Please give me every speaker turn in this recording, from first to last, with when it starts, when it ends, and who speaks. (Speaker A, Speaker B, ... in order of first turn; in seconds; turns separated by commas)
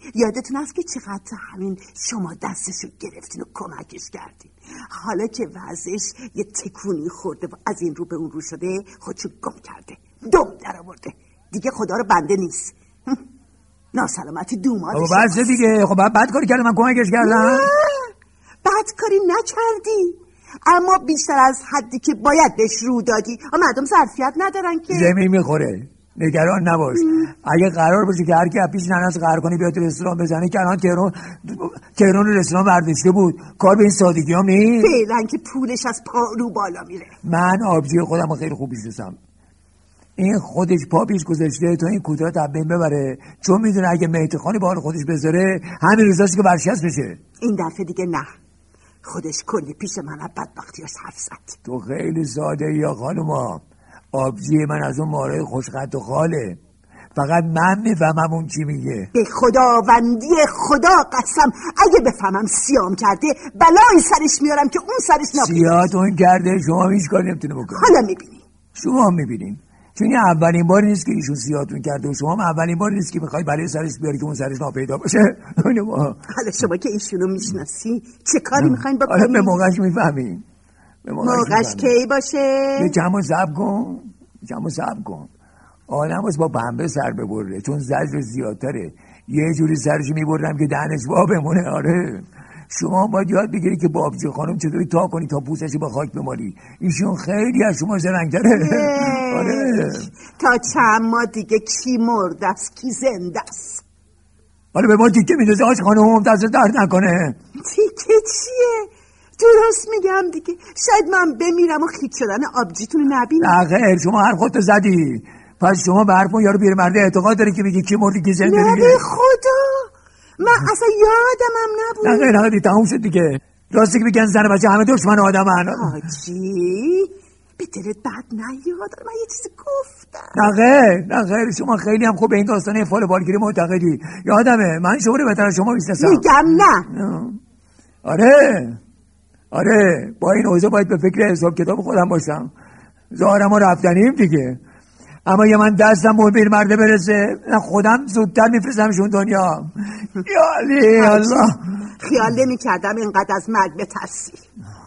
Speaker A: 0.1-13.2, Speaker A: 13.9-15.6, Speaker B: 14.9-17.7, Speaker A: 17.2-18.1, Speaker A: 18.6-25.1, Speaker B: 24.9-35.0, Speaker A: 34.8-37.1, Speaker B: 37.2-39.2, Speaker B: 40.2-47.2, Speaker A: 47.4-48.3, Speaker A: 49.0-51.6, Speaker B: 51.6-56.6, Speaker B: 57.1-59.1, Speaker A: 59.1-65.9, Speaker B: 65.3-67.9, Speaker A: 67.7-68.4, Speaker B: 68.7-76.2, Speaker A: 76.3-79.6, Speaker B: 78.6-80.5, Speaker B: 81.0-81.9, Speaker A: 81.2-83.0, Speaker B: 82.8-85.3, Speaker B: 85.9-100.1, Speaker A: 98.5-103.8, Speaker B: 104.7-107.4, Speaker A: 107.6-113.6, Speaker B: 113.4-119.0, Speaker A: 118.4-122.3, Speaker B: 122.0-125.9, Speaker A: 125.7-130.5, Speaker B: 130.3-136.3, Speaker A: 136.0-136.9, Speaker B: 136.9-137.4, Speaker B: 138.0-138.8, Speaker B: 139.5-142.5, Speaker B: 143.1-144.6, Speaker B: 145.2-151.6, Speaker A: 150.9-154.4